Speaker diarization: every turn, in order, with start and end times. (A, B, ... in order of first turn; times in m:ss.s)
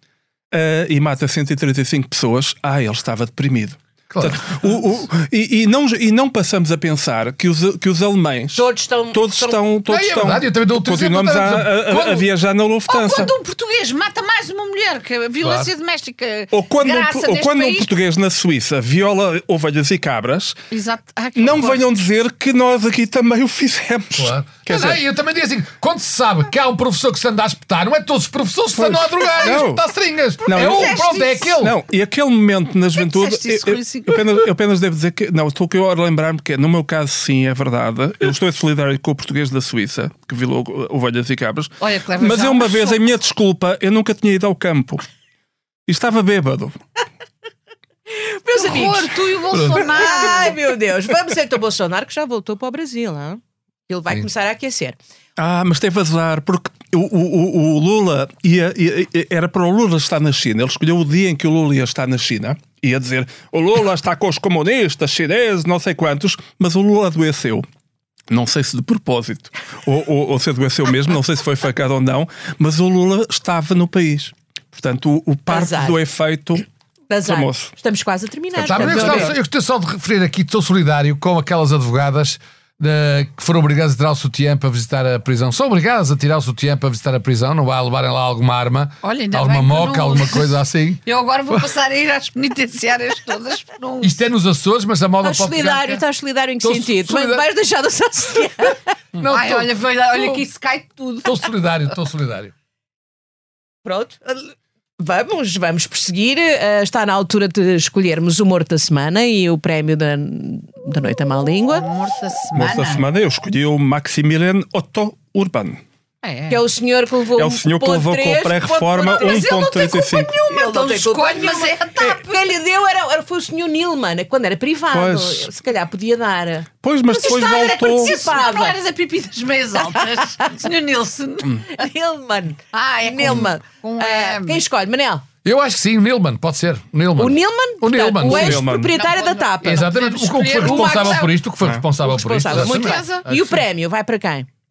0:00.5-0:13.3 A
0:04.1-0:04.8 B
0:08.6-0:09.6 C
0:09.9-0:12.3 B
0:12.9-0:17.9 D
0:15.4-0:15.7 B
0:16.5-0:20.6 A
0:20.7-0:21.9 D
0:21.4-0:25.0 A
0:24.2-0:31.8 B
0:28.8-0:29.8 A
0:30.5-0:31.0 A
0:30.6-0:31.4 D
0:30.9-0:31.3 C
0:31.6-0:45.0 A
0:33.0-0:34.3 D
0:41.8-0:43.0 D
0:45.9-0:46.8 A
0:48.1-0:49.2 C
0:48.5-0:50.6 D
0:49.5-0:49.8 B
0:49.7-0:55.0 C
0:55.4-1:07.6 A
1:08.3-1:16.6 A
1:15.5-1:16.0 C
1:17.1-1:19.4 C
1:17.2-1:17.7 A
1:18.5-1:19.3 A
1:18.6-1:31.0 B
1:29.0-1:34.2 D
1:34.0-1:36.0 B
1:35.2-1:39.0 C
1:36.6-1:37.4 B
1:39.2-1:40.4 B
1:39.3-1:41.5 D
1:41.2-1:42.5 B
1:43.8-1:51.9 C
1:51.8-1:53.0 D
1:52.5-1:55.8 A
1:56.2-1:56.6 D
1:56.5-2:06.7 C
1:57.4-2:00.4 A
1:59.1-2:02.2 D
2:04.9-2:05.5 A
2:06.8-2:08.2 A
2:07.1-2:11.6 D
2:07.3-2:08.8 C
2:09.8-2:10.5 C
2:11.7-2:15.3 C
2:12.7-2:14.6 D
2:15.4-2:18.7 B
2:17.2-2:21.3 C
2:18.2-2:19.0 A
2:18.9-2:21.3 D
2:19.6-2:23.6 B
2:22.0-2:24.5 C
2:22.5-2:23.3 D